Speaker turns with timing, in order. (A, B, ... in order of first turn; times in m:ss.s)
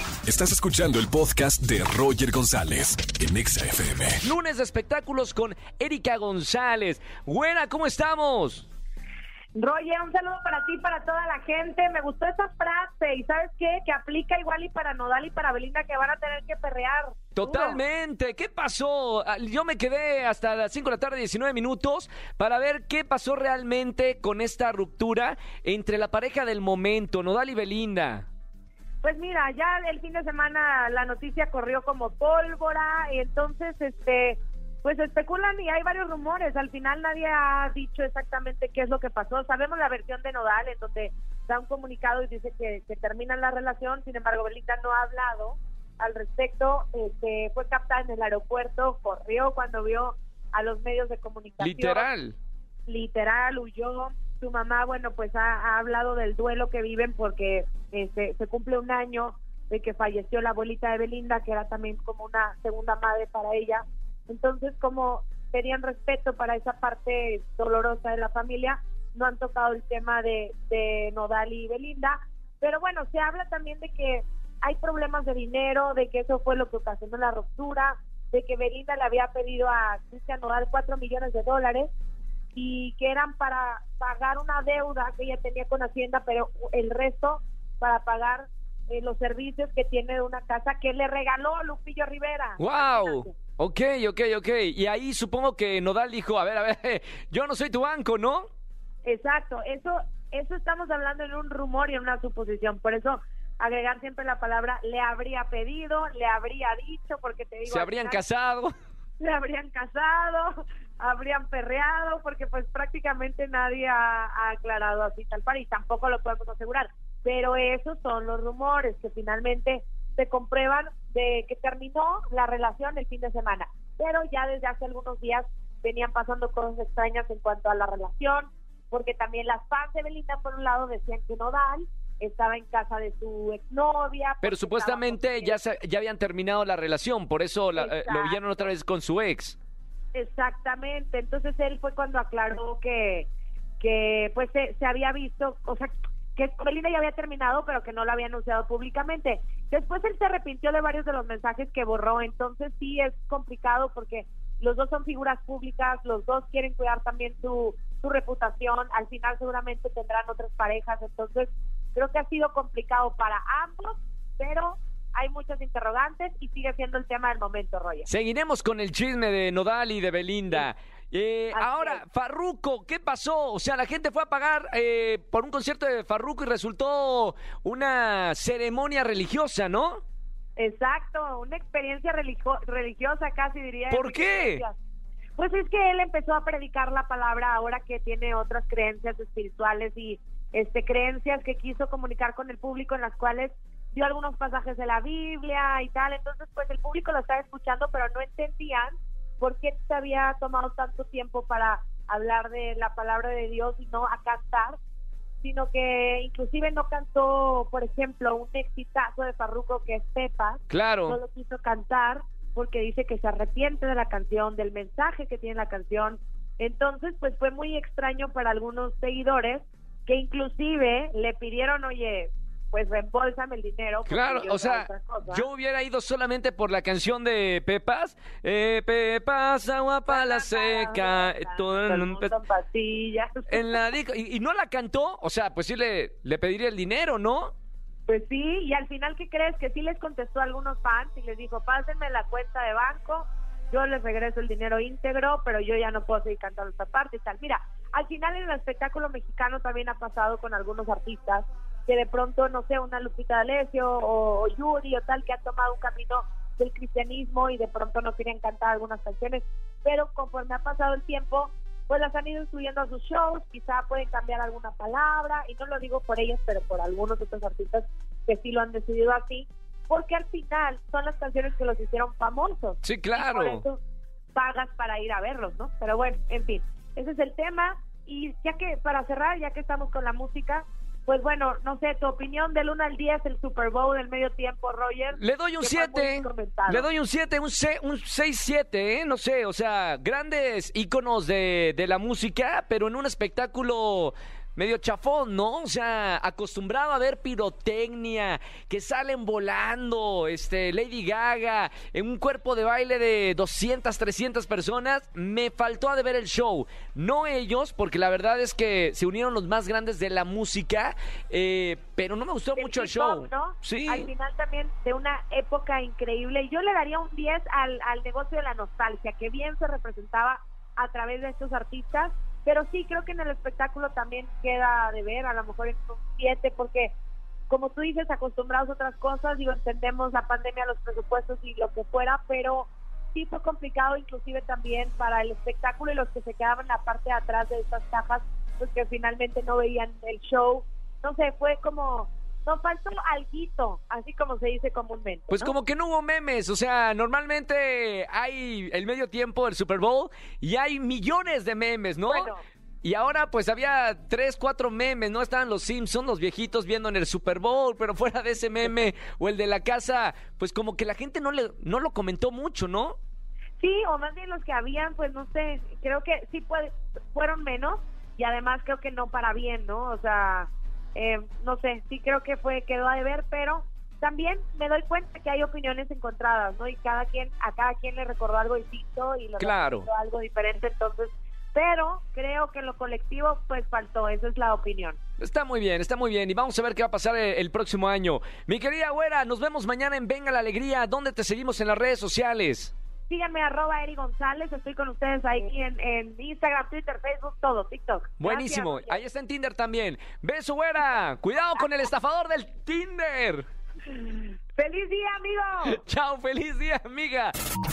0:00.3-0:04.2 A
0:04.2-0:08.7 B
0:09.6-0:17.8 C
0:17.4-0:28.3 B
0:29.0-0:52.1 C
0:51.6-0:52.4 B
0:52.9-1:21.9 C
1:22.5-1:33.4 C
1:32.6-1:38.5 B
1:39.0-1:48.2 C
1:47.7-1:48.7 B
1:49.2-2:15.6 C
2:14.4-2:19.6 B
2:17.8-2:18.7 C
2:20.1-2:23.3 C
2:23.8-2:48.1 C
2:48.1-3:00.0 B
2:51.5-2:52.0 C
3:00.6-3:04.8 C
3:03.9-3:04.6 B
3:05.4-3:24.8 C
3:25.4-3:45.5 C
3:30.7-3:31.2 B
3:44.1-3:52.3 B
3:50.1-3:53.9 C
3:53.5-3:57.5 B
3:58.1-4:33.8 C
4:32.8-4:33.6 B
4:34.4-4:46.9 C
4:45.2-5:14.1 B
5:12.6-5:27.0 C
5:27.5-5:45.5 C
5:45.3-5:52.3 B
5:52.1-5:52.4 C
5:52.8-6:03.0 B
6:03.6-6:25.0 C
6:19.4-6:19.9 B
6:25.2-6:32.7 B
6:33.1-6:39.0 C
6:38.2-6:43.5 B
6:43.9-6:45.8 C
6:45.7-6:47.3 B